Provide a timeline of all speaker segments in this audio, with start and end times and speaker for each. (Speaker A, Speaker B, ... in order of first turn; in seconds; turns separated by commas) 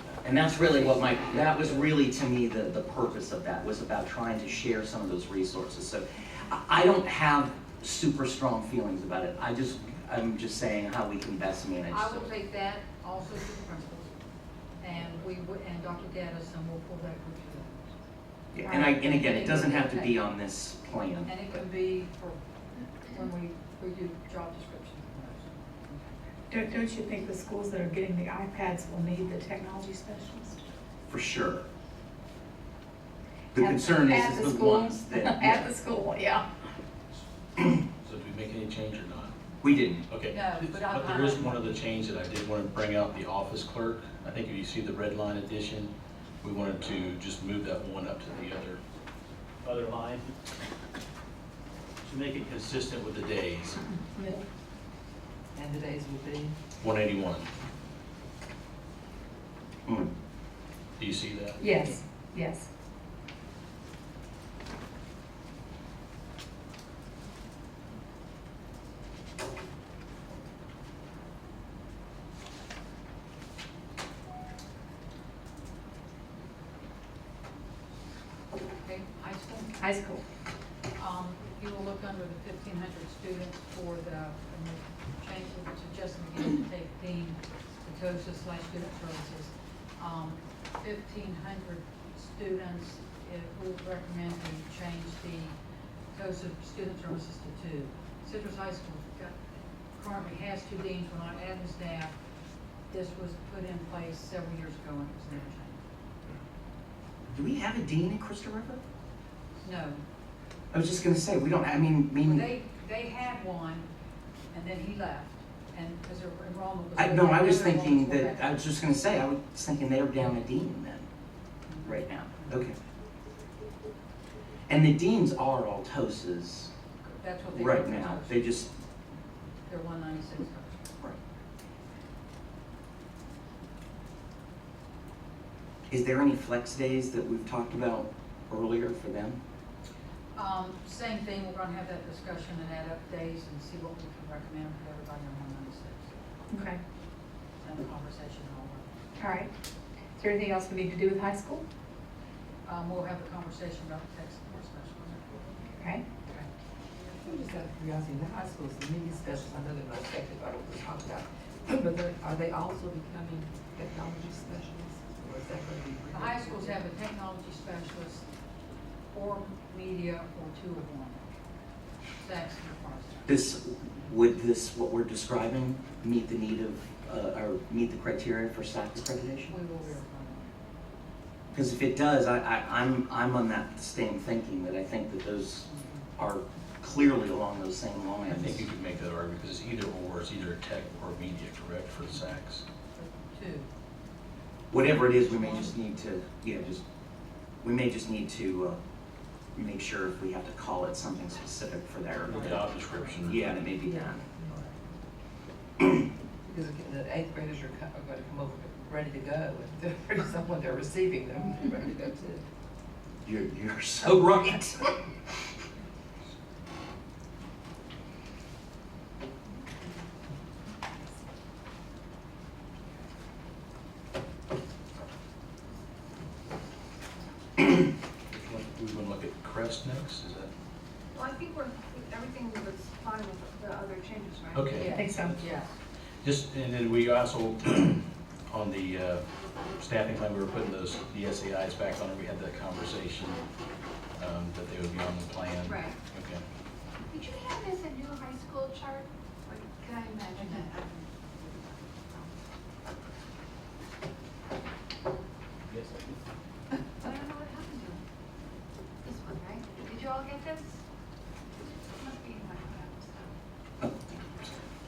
Speaker A: 0.2-12.3, Speaker B: 11.9-14.1, Speaker B: 14.8-17.8, Speaker A: 18.5-21.3, Speaker C: 18.6-18.9, Speaker B: 18.8-20.2, Speaker B: 21.2-22.4, Speaker B: 23.0-26.2, Speaker C: 26.5-30.6, Speaker A: 31.1-31.6, Speaker A: 33.5-35.7, Speaker C: 33.5-36.4, Speaker D: 38.0-39.4, Speaker A: 39.6-40.0, Speaker D: 40.1-48.8, Speaker B: 40.3-41.7, Speaker D: 49.6-50.3, Speaker D: 52.0-53.8, Speaker C: 54.1-54.4, Speaker E: 55.5-56.5, Speaker D: 56.8-57.5, Speaker D: 61.0-61.6, Speaker C: 61.6-62.7, Speaker B: 78.8-79.8, Speaker C: 79.8-80.2, Speaker B: 80.9-95.5, Speaker B: 96.1-99.4, Speaker B: 99.9-102.2, Speaker B: 102.9-105.8, Speaker A: 107.3-108.8, Speaker B: 109.6-110.0, Speaker A: 110.7-112.5, Speaker B: 112.2-113.9, Speaker B: 114.5-118.5, Speaker A: 117.0-121.1, Speaker B: 121.7-122.6, Speaker A: 121.8-122.7, Speaker A: 124.7-126.7, Speaker B: 127.0-128.7, Speaker A: 127.5-128.7, Speaker B: 129.6-130.8, Speaker A: 135.9-139.4, Speaker B: 140.3-146.1, Speaker C: 146.5-146.8, Speaker B: 147.6-148.9, Speaker C: 149.2-149.5, Speaker C: 150.2-151.6, Speaker B: 152.6-155.4, Speaker C: 155.8-156.0, Speaker E: 157.1-166.8, Speaker B: 166.1-168.3, Speaker B: 169.1-171.2, Speaker B: 172.2-173.4, Speaker A: 173.3-179.5, Speaker B: 179.5-180.5, Speaker A: 181.5-188.7, Speaker B: 185.7-186.0, Speaker D: 188.3-192.6, Speaker B: 192.9-193.7, Speaker A: 194.7-196.8, Speaker B: 195.2-195.7, Speaker A: 197.6-198.8, Speaker A: 199.5-202.7, Speaker B: 202.2-203.3, Speaker D: 202.2-203.5, Speaker A: 203.2-204.2, Speaker E: 203.8-204.6, Speaker B: 203.9-204.7, Speaker E: 206.4-212.4, Speaker A: 213.2-214.9, Speaker D: 228.3-230.5, Speaker F: 231.1-234.8, Speaker D: 234.5-235.4, Speaker B: 234.8-235.7, Speaker C: 234.9-235.4, Speaker D: 236.2-239.2, Speaker D: 239.8-243.4, Speaker D: 244.2-246.4, Speaker F: 245.6-245.9, Speaker F: 247.1-252.3, Speaker F: 257.0-258.0, Speaker F: 259.0-260.8, Speaker F: 261.6-263.3, Speaker A: 263.8-264.4